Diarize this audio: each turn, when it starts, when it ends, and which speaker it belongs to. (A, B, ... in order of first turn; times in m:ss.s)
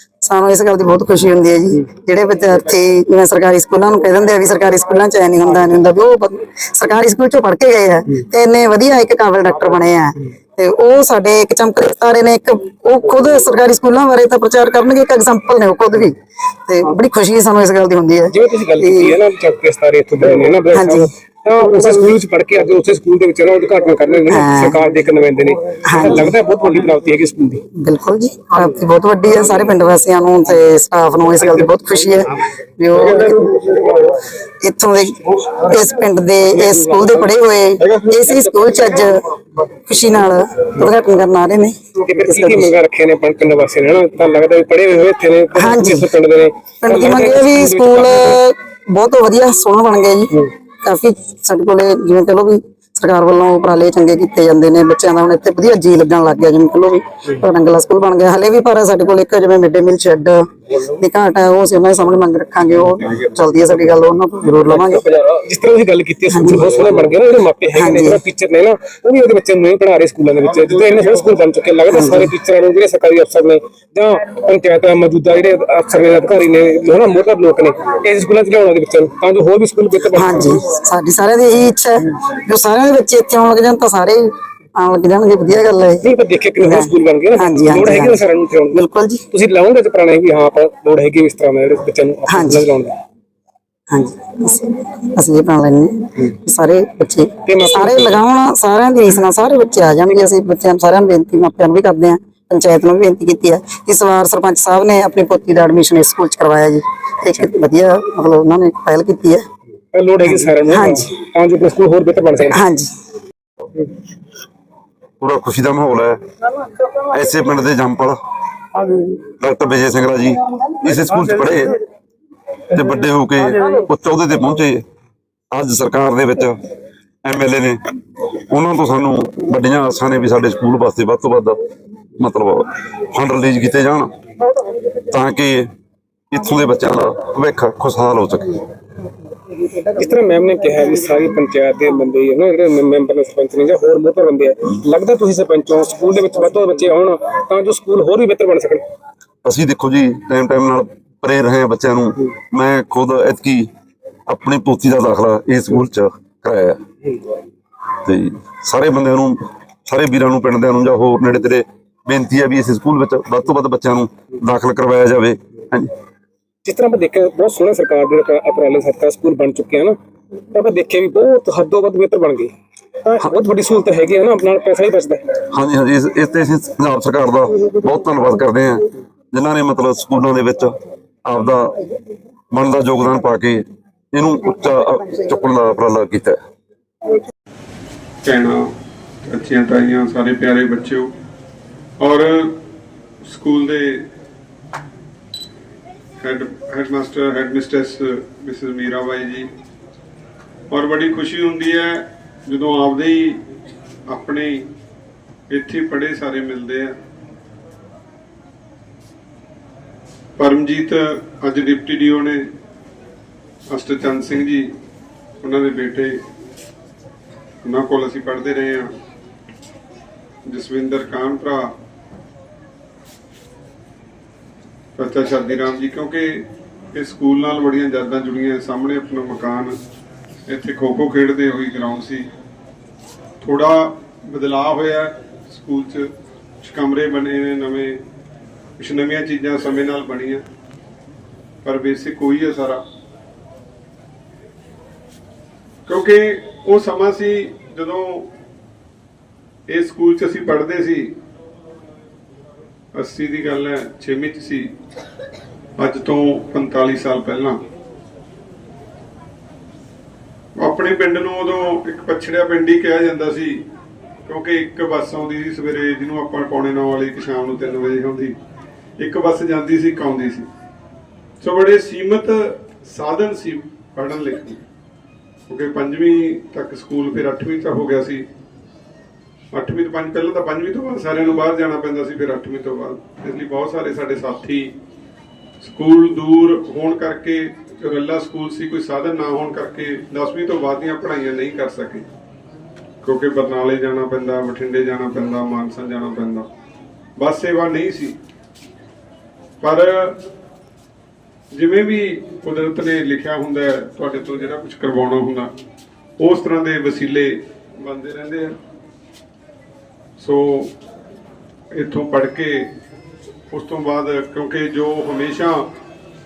0:00.2-0:16.2 A
0:16.7-0:19.1 A
0:18.3-0:27.6 B
0:20.7-0:21.1 A
0:21.6-0:22.1 A
0:24.3-0:24.8 A
0:25.9-0:26.3 A
0:27.8-0:33.4 A
0:29.3-0:29.7 B
0:31.4-0:31.7 B
0:32.9-0:34.2 B
0:34.6-0:39.2 A
0:36.5-0:39.0 B
0:39.8-0:42.7 A
0:42.0-0:48.4 B
0:45.6-0:46.1 A
0:46.8-0:50.3 A
0:50.8-1:05.0 A
1:04.6-1:20.6 B
1:06.3-1:06.8 A
1:07.8-1:08.2 A
1:10.5-1:11.2 C
1:11.9-1:12.3 A
1:20.1-1:26.0 A
1:26.0-1:28.8 B
1:26.6-1:28.2 A
1:28.7-1:29.2 A
1:29.3-1:32.9 B
1:32.3-1:32.6 A
1:33.9-1:49.4 A
1:37.4-1:38.2 B
1:49.9-1:52.6 B
1:50.7-1:51.0 A
1:52.6-1:52.9 A
1:55.2-1:56.2 D
1:57.0-1:58.2 D
1:59.4-2:01.8 D
2:02.7-2:04.8 D
2:05.5-2:06.6 D
2:07.2-2:07.8 D
2:08.5-2:11.6 D
2:12.2-2:14.1 D
2:15.0-2:15.7 D
2:16.3-2:18.6 D
2:19.8-2:28.8 B
2:29.4-2:33.7 D
2:34.3-2:36.8 D
2:38.0-2:45.9 D
2:46.6-2:50.0 B
2:50.5-2:52.5 B
2:53.0-2:55.2 B
2:55.5-3:01.8 D
3:02.5-3:06.4 D
3:08.2-3:08.7 C
3:09.3-3:11.1 C
3:12.0-3:12.6 C
3:13.2-3:14.1 C
3:16.2-3:19.5 C
3:20.7-3:23.4 C
3:24.1-3:24.7 C
3:25.5-3:27.0 C
3:30.4-3:32.5 C
3:33.7-3:34.7 C
3:35.4-3:36.2 C
3:37.6-3:38.9 C
3:40.5-3:41.7 C
3:45.0-3:49.8 C
3:50.5-3:52.3 C
3:53.4-3:56.1 C
3:56.6-3:58.0 C
3:58.8-4:00.4 C
4:01.6-4:02.8 C
4:05.9-4:08.3 C
4:09.7-4:11.1 C
4:12.9-4:14.7 C
4:15.8-4:17.6 C
4:20.6-4:23.6 C
4:24.2-4:28.4 C
4:29.0-4:30.5 C
4:31.4-4:34.6 C
4:35.5-4:38.2 C
4:39.5-4:44.8 C
4:45.6-4:52.1 C
4:53.0-4:56.5 C
4:57.2-4:58.2 C
4:59.6-5:00.2 C
5:01.5-5:05.5 C
5:06.2-5:08.6 C
5:10.2-5:10.7 C
5:11.7-5:12.7 C
5:13.5-5:15.7 C